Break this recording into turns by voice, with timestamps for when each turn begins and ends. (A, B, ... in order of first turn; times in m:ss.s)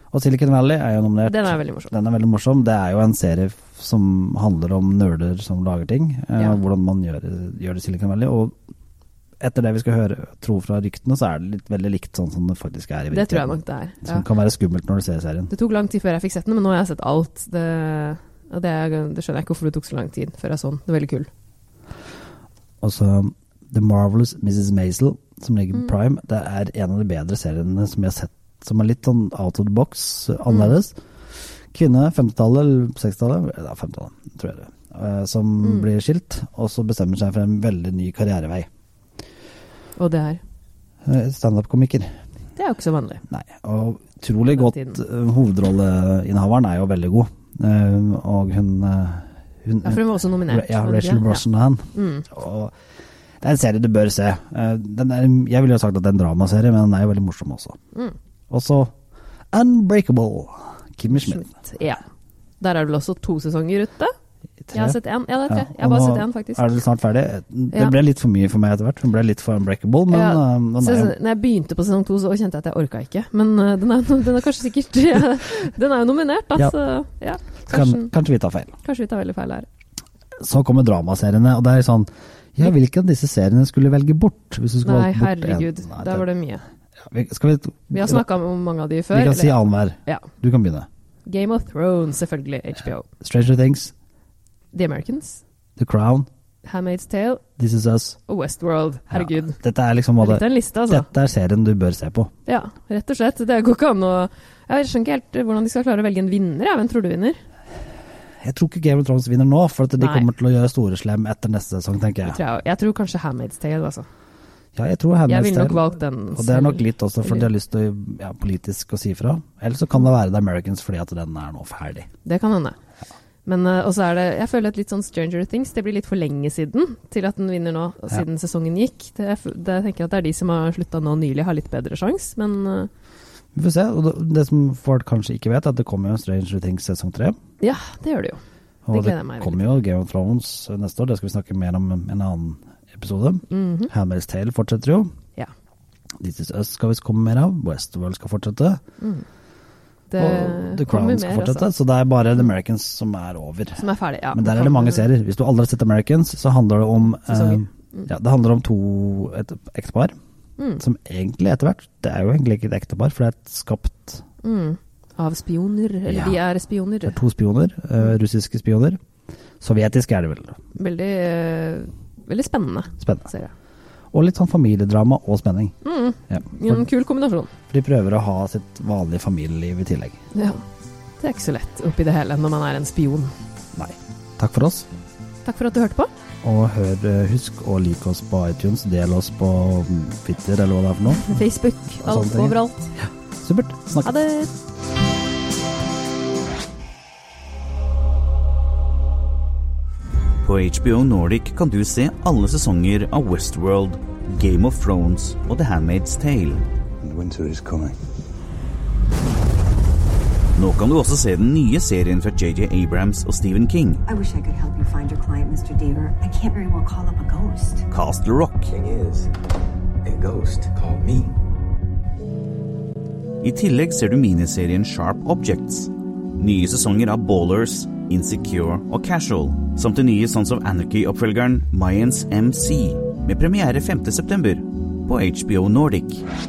0:00.1-0:08.5 A
0:01.3-0:01.9 B
0:09.4-0:15.5 A
0:13.1-0:14.2 B
0:15.5-0:21.3 B
0:22.8-0:31.0 A
0:30.5-0:30.8 B
0:31.7-0:38.7 A
0:35.6-0:35.9 B
0:40.0-0:40.4 B
0:41.0-0:42.1 A
0:42.6-0:43.2 B
0:43.3-0:52.7 A
0:44.6-0:45.0 B
0:49.8-0:52.3 B
0:53.4-0:57.8 A
0:58.5-0:58.9 A
0:59.5-1:01.5 A
1:01.1-1:02.0 B
1:02.6-1:04.1 B
1:04.7-1:05.0 A
1:04.7-1:06.7 B
1:05.5-1:11.2 A
1:10.1-1:18.1 B
1:17.6-1:18.8 A
1:18.8-1:19.7 B
1:20.4-1:26.3 A
1:24.8-1:26.6 B
1:27.1-1:28.2 A
1:27.9-1:30.3 B
1:29.1-1:30.9 A
1:31.3-1:33.1 B
1:33.1-1:33.9 A
1:34.7-1:35.4 B
1:35.8-1:36.3 A
1:36.6-1:37.5 B
1:37.6-1:38.2 A
1:38.3-1:39.6 B
1:39.1-1:42.3 A
1:40.2-1:41.1 B
1:42.5-1:47.4 B
1:48.4-1:52.4 A
1:50.0-1:50.3 B
1:52.3-1:54.1 B
1:54.8-2:02.1 A
1:55.3-1:57.5 B
2:02.2-2:02.8 B
2:03.4-2:12.9 B
2:13.6-2:17.4 A
2:17.6-2:18.4 B
2:18.8-2:25.1 A
2:18.9-2:19.8 B
2:23.5-2:23.9 B
2:26.2-2:28.8 A
2:29.0-2:29.2 B
2:30.1-2:31.7 B
2:30.2-2:33.8 A
2:33.8-2:35.1 B
2:34.3-2:40.2 A
2:37.2-2:38.1 B
2:40.8-2:44.2 A
2:44.4-2:47.2 B
2:46.1-2:46.4 A
2:47.1-2:49.0 A
2:49.6-2:50.6 A
2:50.8-2:53.5 B
2:53.0-2:53.3 A
2:54.1-2:55.8 A
2:55.8-2:57.5 B
2:56.3-2:56.8 A
2:57.7-3:00.2 A
3:00.3-3:00.6 B
3:01.2-3:03.3 B
3:03.8-3:04.9 A
3:05.4-3:06.1 B
3:06.4-3:11.3 A
3:11.2-3:12.9 B
3:12.0-3:12.6 A
3:13.4-3:14.1 A
3:14.0-3:14.5 B
3:20.4-3:26.6 C
3:27.0-3:28.0 D
3:30.6-3:34.0 C
3:34.1-3:37.9 E
3:37.9-3:38.7 C
3:38.6-3:39.3 D
3:40.0-3:41.4 D
3:43.4-3:56.3 C